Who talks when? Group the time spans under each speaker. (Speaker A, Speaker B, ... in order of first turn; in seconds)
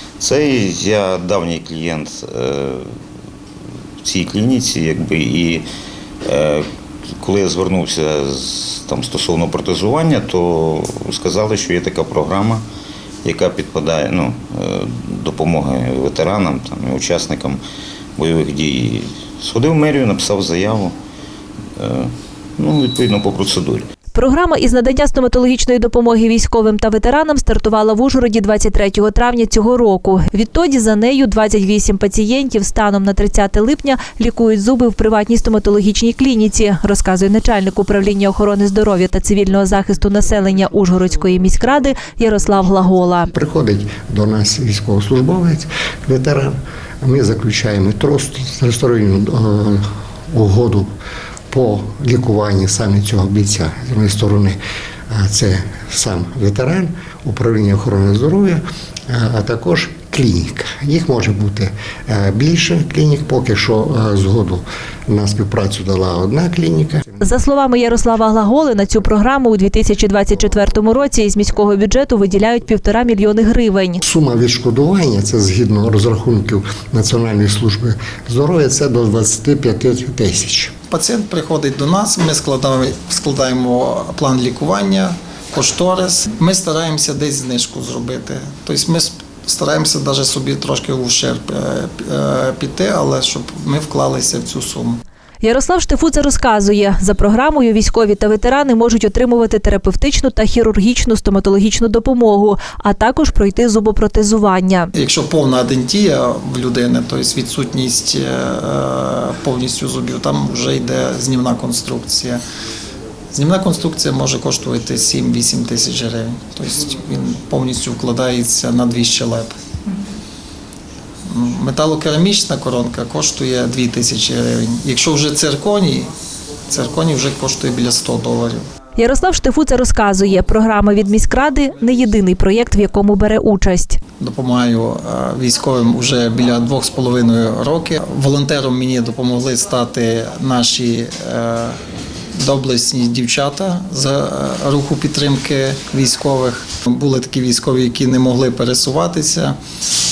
Speaker A: 0.2-2.9, 4.0-5.6, 6.2-6.6, 7.2-12.6, 13.2-17.6, 18.2-20.9, 21.8-23.9
Speaker B: 24.1-43.3, 67.2-74.0, 95.4-104.9, 129.0-134.0
Speaker C: 43.3-50.9, 51.5-67.2, 74.0-80.7
Speaker D: 80.9-95.0, 105.0-112.4, 113.3-119.5, 121.3-126.1, 126.7-128.7, 134.2-141.8, 142.4-149.6